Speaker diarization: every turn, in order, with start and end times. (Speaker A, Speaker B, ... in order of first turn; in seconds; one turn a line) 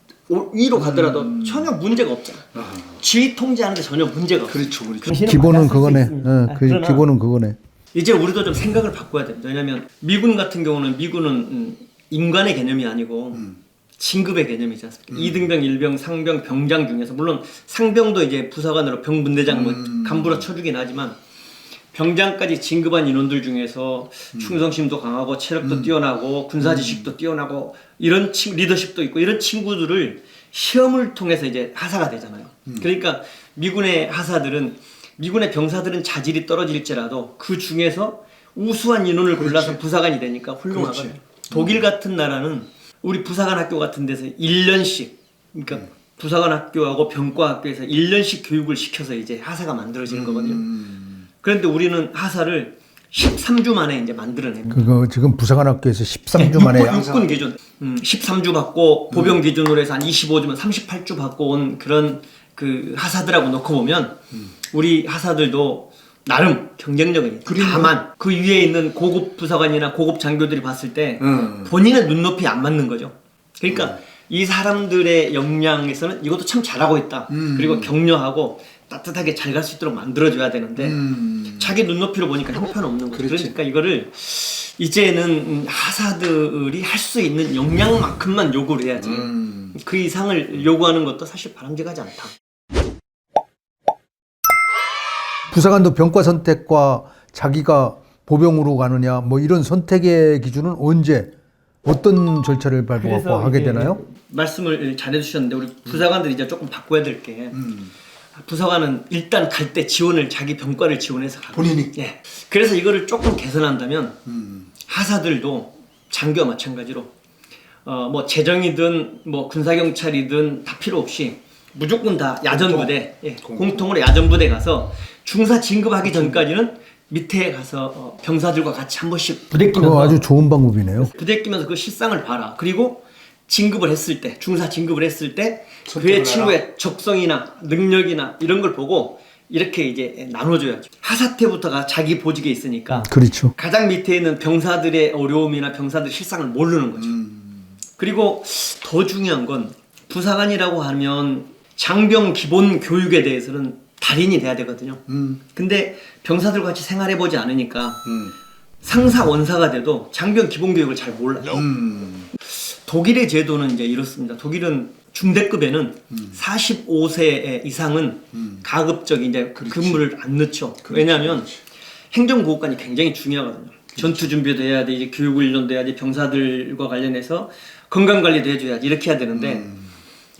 Speaker A: 0.3-7.0
Speaker B: 1.0-1.7
Speaker B: 4.5-5.1
Speaker C: 5.2-7.6
Speaker A: 7.9-21.2
Speaker B: 19.8-20.2
Speaker A: 21.9-54.9
Speaker B: 39.5-39.8
Speaker B: 50.3-51.0
Speaker C: 54.7-57.2
Speaker A: 56.4-92.3
Speaker B: 77.4-77.7
Speaker B: 80.9-81.5
Speaker B: 89.2-89.7
Speaker C: 95.5-101.3
Speaker C: 101.8-104.0
Speaker A: 103.0-107.8
Speaker A: 108.4-114.2
Speaker C: 111.5-111.9
Speaker A: 114.8-117.1
Speaker A: 117.8-130.2
Speaker C: 129.5-131.1
Speaker A: 131.0-147.2
Speaker B: 136.0-136.6
Speaker C: 143.0-143.5
Speaker B: 147.1-147.6
Speaker A: 148.0-158.3
Speaker B: 155.1-155.4
Speaker A: 158.8-161.7
Speaker B: 161.6-162.3
Speaker A: 162.4-171.6
Speaker A: 172.1-179.8